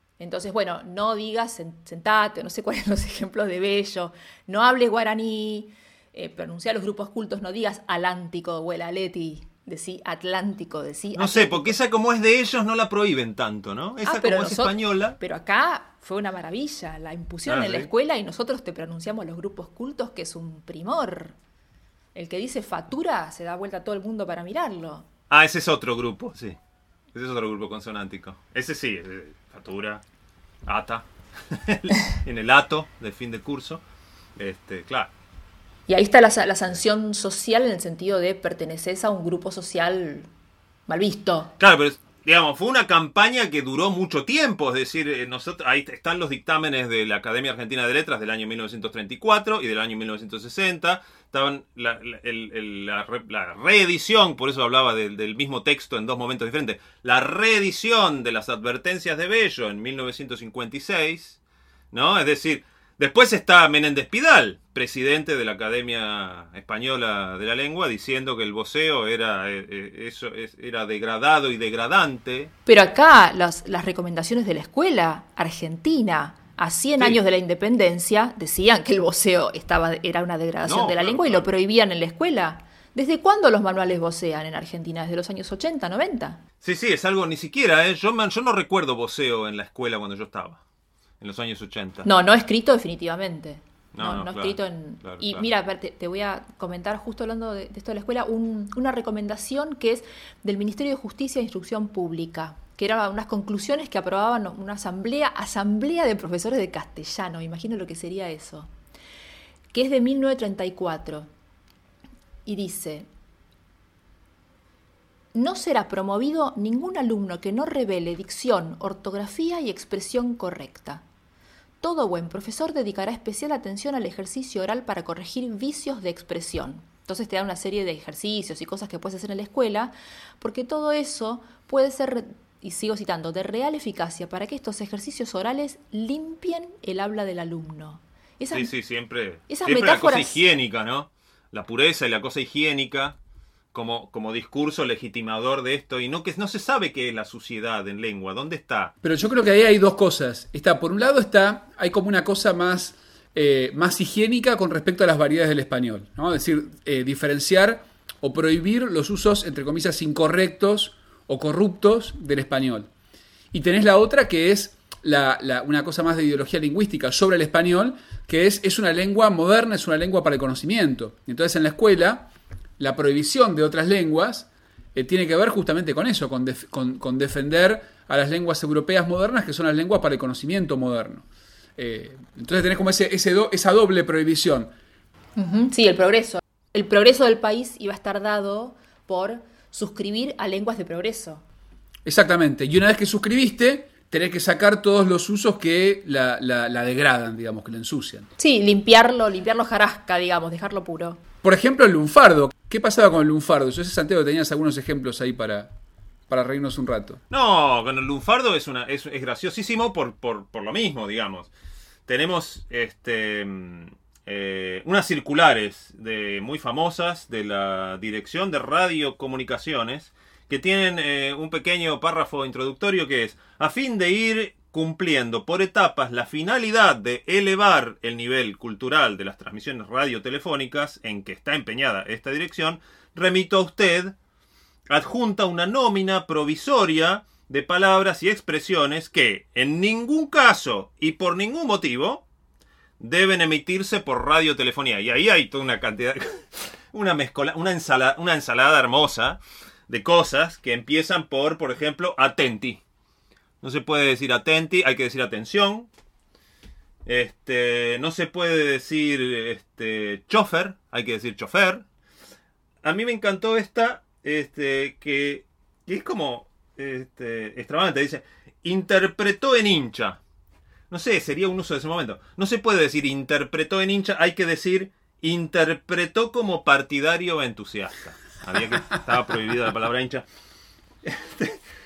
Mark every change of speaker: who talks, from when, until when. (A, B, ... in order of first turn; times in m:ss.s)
0:00.2-0:11.8 A
0:11.1-0:15.2 B
0:14.0-0:21.3 A
0:17.5-0:17.9 B
0:22.1-0:25.0 A
0:25.3-0:26.6 B
0:27.1-0:30.0 B
0:30.6-0:33.8 B
0:34.4-0:35.1 B
0:35.9-0:40.3 A
0:40.9-0:41.5 A
0:41.6-1:01.4 B
1:01.9-1:12.5 B
1:12.6-1:26.4 A
1:20.6-1:21.4 B
1:26.6-1:30.6 B
1:31.2-1:32.1 B
1:32.0-1:48.7 A
1:33.9-1:35.4 B
1:49.7-1:51.3 A
1:52.4-1:53.1 A
1:55.3-2:01.0 A
2:01.8-2:18.7 A
2:18.5-2:23.2 B
2:19.5-2:20.4 A
2:23.7-2:28.9 B
2:29.0-2:42.9 C
2:43.5-3:01.2 C
3:01.8-3:04.7 C
3:05.4-3:11.4 A
3:12.0-3:18.3 C
3:18.4-3:21.2 A
3:21.4-3:25.7 C
3:26.3-3:27.2 C
3:27.3-3:31.5 B
3:32.1-3:54.1 B
3:54.9-4:02.2 B
4:03.0-4:12.8 B
4:13.6-4:15.9 B
4:17.0-4:21.8 B
4:22.8-4:30.2 B
4:30.9-4:40.2 B
4:41.0-4:41.6 B